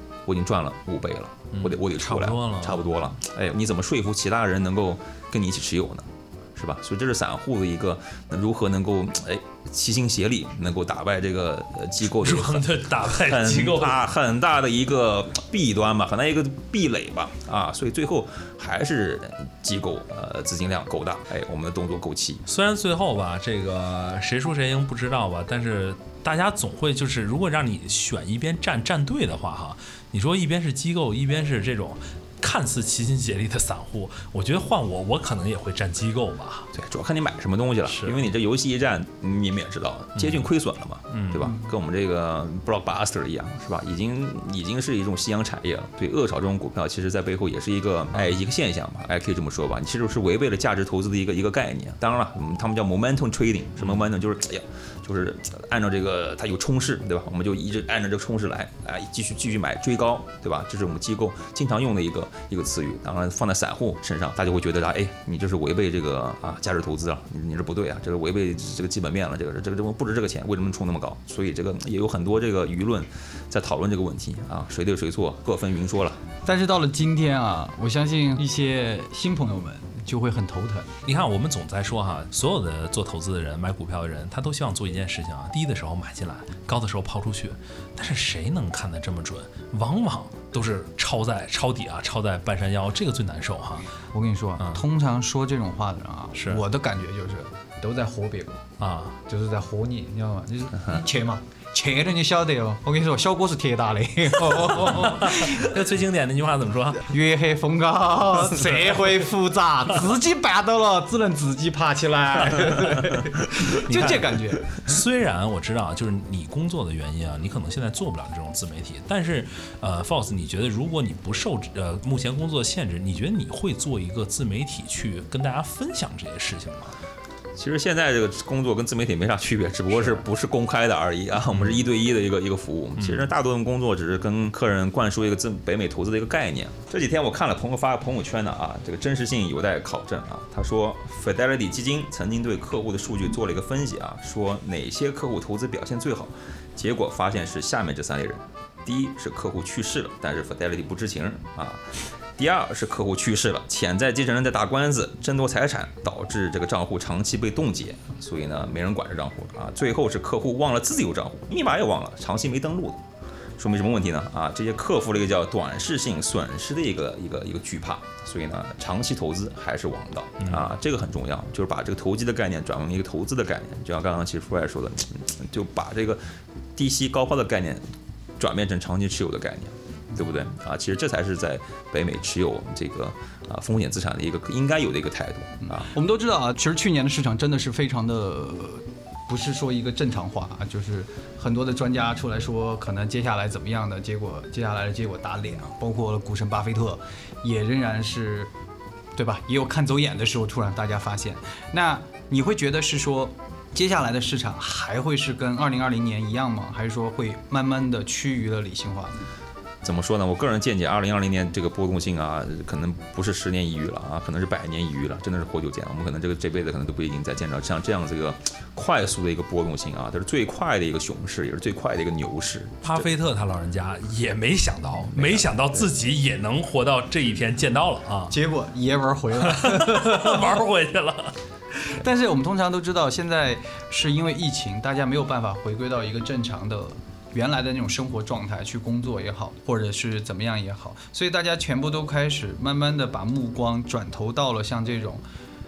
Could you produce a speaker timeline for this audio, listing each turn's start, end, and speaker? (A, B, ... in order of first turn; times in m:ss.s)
0:00.2-0:22.4 A
0:01.5-0:02.8 B
0:12.2-0:14.0 B
0:22.5-0:36.7 B
0:36.7-1:16.2 A
0:37.9-0:38.2 B
0:40.2-0:40.4 B
0:41.1-0:41.5 B
1:16.4-1:20.9 C
1:21.0-1:33.9 B
1:34.1-1:38.6 C
1:36.3-1:36.6 B
1:38.8-1:39.2 B
1:39.3-1:45.8 C
1:44.5-1:47.1 B
1:47.0-1:54.8 C
1:52.6-1:53.1 B
1:53.7-2:06.9 B
2:07.6-2:43.0 A
2:11.5-2:11.8 B
2:13.0-2:13.3 B
2:43.6-2:57.8 A
2:50.4-2:50.7 B
2:58.4-3:05.9 A
3:05.7-3:18.5 C
3:19.2-3:29.2 C
3:29.8-3:43.1 A
3:42.8-3:48.3 B
3:45.1-3:45.9 A
3:48.3-3:50.6 C
3:49.4-3:51.3 B
3:51.9-4:05.2 C